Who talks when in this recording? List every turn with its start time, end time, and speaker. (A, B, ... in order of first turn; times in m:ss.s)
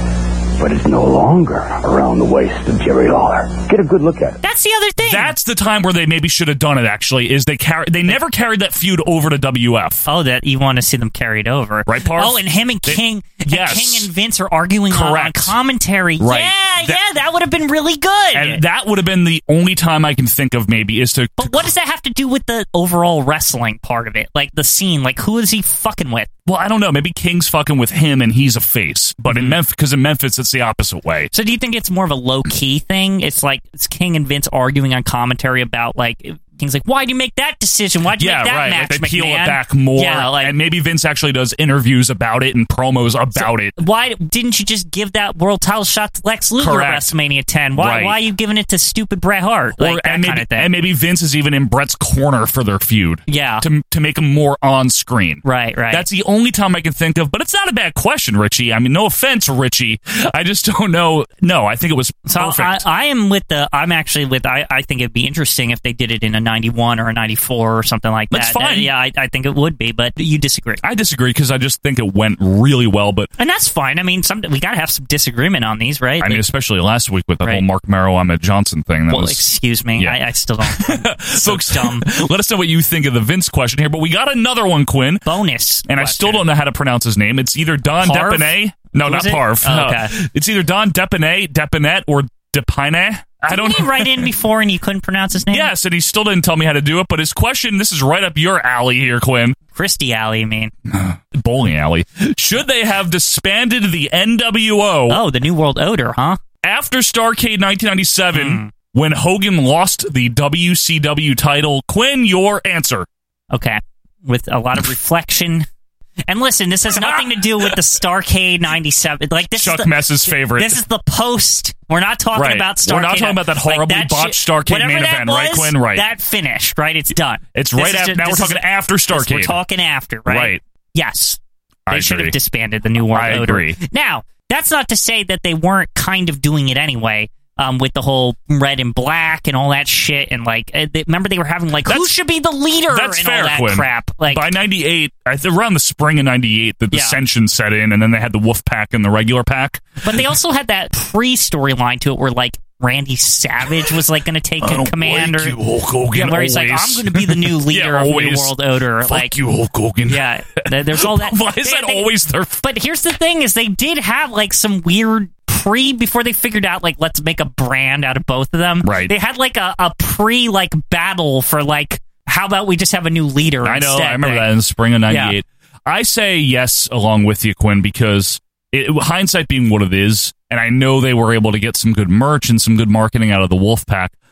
0:00.6-0:04.4 A
0:04.4-0:05.3 B
0:05.0-0:10.0 C
0:10.0-0:18.6 B
0:11.9-0:14.1 C
0:14.9-0:15.5 C
0:16.2-0:17.0 C
0:18.3-0:21.7 C
0:21.4-0:26.3 B
0:26.4-0:31.3 C
0:29.3-0:29.6 B
0:31.3-0:40.6 B
0:38.2-0:43.8 C
0:43.4-0:50.7 B
0:46.6-0:47.1 C
0:47.8-0:48.2 C
0:49.8-1:02.8 C
0:53.3-0:53.6 B
0:55.4-0:56.0 B
1:02.3-1:10.8 B
1:08.3-1:08.9 C
1:10.8-1:13.3 C
1:13.4-1:16.4 B
1:16.2-1:19.4 C
1:19.1-1:22.1 B
1:20.0-1:25.3 C
1:25.2-1:26.4 B
1:25.9-1:34.3 C
1:28.0-1:30.1 B
1:33.5-1:35.7 B
1:35.5-1:39.6 C
1:39.7-1:40.7 B
1:40.9-1:45.2 C
1:45.1-1:46.4 B
1:46.6-1:53.1 C
1:48.3-1:48.7 B
1:53.5-1:55.7 B
1:56.3-2:11.4 B
1:56.9-1:57.7 C
1:59.5-2:00.8 C
2:02.3-2:06.0 C
2:07.5-2:09.6 C
2:10.3-2:10.6 C
2:11.9-2:12.3 C
2:11.9-2:24.5 B
2:13.1-2:13.8 C
2:21.9-2:22.1 C
2:22.9-2:30.2 C
2:26.9-2:27.2 B
2:30.0-2:35.6 B
2:34.6-2:42.6 C
2:36.1-2:39.3 B
2:40.1-2:42.1 B
2:42.6-2:54.5 B
2:48.8-2:49.1 C
2:53.6-3:04.1 C
2:55.1-2:55.4 B